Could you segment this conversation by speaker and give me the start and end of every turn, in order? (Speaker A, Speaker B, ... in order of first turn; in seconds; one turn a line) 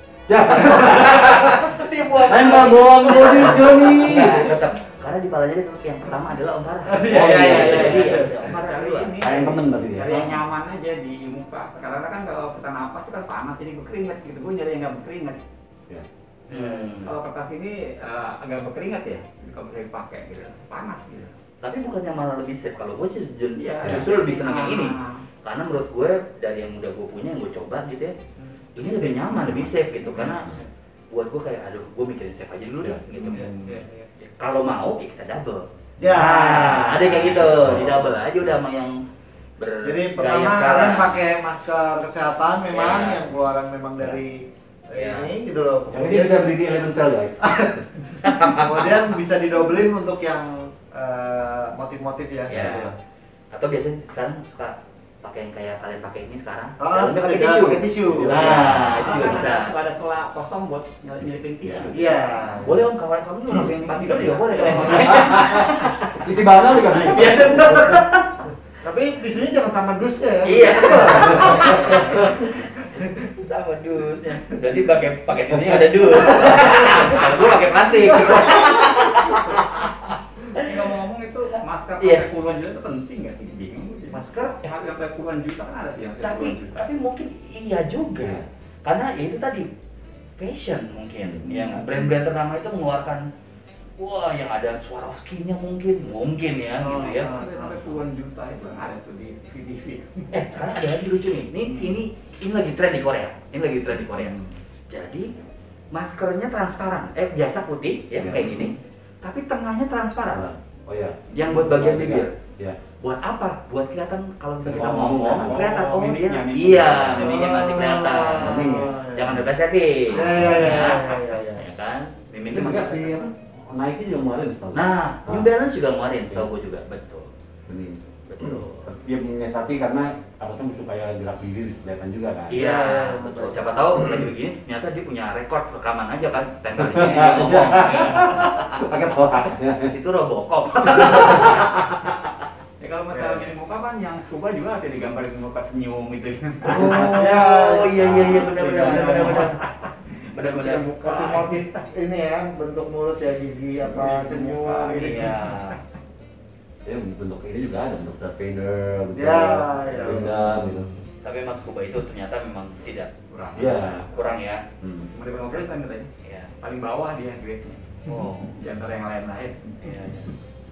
Speaker A: 0.3-1.6
Speaker B: 0.6-9.3
Speaker A: 2.2-4.6
Speaker C: 6.9-8.4
Speaker A: 7.0-8.2
Speaker D: 8.4-15.4
Speaker A: 9.2-10.4
Speaker B: 16.5-17.1
Speaker D: 16.5-21.3
Speaker B: 21.6-28.2
Speaker D: 23.6-25.2
Speaker D: 28.8-29.6
Speaker B: 28.8-30.5
Speaker A: 30.1-30.6
Speaker B: 31.1-33.5
Speaker A: 32.8-33.5
Speaker D: 33.2-33.8
Speaker C: 33.4-34.1
Speaker B: 34.2-39.0
Speaker E: 36.0-37.8
Speaker A: 37.0-38.1
Speaker B: 39.6-41.1
Speaker E: 39.8-46.5
Speaker B: 42.7-43.2
Speaker B: 44.9-45.3
Speaker A: 45.9-47.5
Speaker E: 47.4-52.9
Speaker B: 48.2-49.0
Speaker B: 52.5-52.9
Speaker B: 53.5-59.7
Speaker E: 56.8-58.9
Speaker A: 58.1-59.1
Speaker D: 58.8-62.6
Speaker A: 61.6-61.9
Speaker E: 61.9-62.8
Speaker B: 62.6-66.2
Speaker D: 63.6-65.0
Speaker E: 64.1-65.1
Speaker A: 64.9-68.0
Speaker B: 66.8-68.3
Speaker E: 68.8-72.4
Speaker B: 70.4-80.7
Speaker E: 78.3-78.6
Speaker D: 80.5-86.9
Speaker B: 82.0-82.3
Speaker E: 84.1-84.6
Speaker B: 86.2-89.7
Speaker B: 90.4-93.2
Speaker D: 91.5-92.1
Speaker B: 94.0-97.3
Speaker E: 96.8-97.8
Speaker D: 97.1-100.7
Speaker B: 100.3-104.4
Speaker D: 101.7-102.0
Speaker D: 104.2-104.5
Speaker B: 104.9-105.3
Speaker B: 105.9-110.5
Speaker A: 108.2-108.7
Speaker D: 108.3-108.7
Speaker A: 110.3-112.8
Speaker B: 111.3-112.3
Speaker B: 113.0-123.2
Speaker A: 114.6-115.7
Speaker D: 114.7-117.5
Speaker E: 117.3-119.3
Speaker A: 118.3-119.4
Speaker E: 120.1-121.6
Speaker A: 120.2-120.9
Speaker A: 122.5-125.5
Speaker B: 124.7-127.3
Speaker A: 127.7-132.6
Speaker B: 128.3-128.9
Speaker B: 132.5-138.9
Speaker C: 132.6-133.6
Speaker E: 132.7-134.0
Speaker A: 136.8-139.9
Speaker B: 139.8-142.1
Speaker D: 142.8-147.3
Speaker E: 143.2-143.4
Speaker E: 146.7-149.5
Speaker B: 146.7-149.6
Speaker A: 148.0-148.4
Speaker D: 148.3-151.7
Speaker B: 150.3-150.9
Speaker E: 151.0-155.3
Speaker D: 153.8-155.8
Speaker B: 154.9-155.8
Speaker A: 156.8-160.9
Speaker E: 159.1-160.6
Speaker B: 161.2-163.1
Speaker D: 163.3-164.0
Speaker A: 163.5-164.1
Speaker B: 163.7-164.6
Speaker A: 164.8-165.1
Speaker D: 165.1-166.1
Speaker B: 166.2-166.5
Speaker D: 166.6-170.3
Speaker B: 168.1-168.5
Speaker B: 169.8-170.3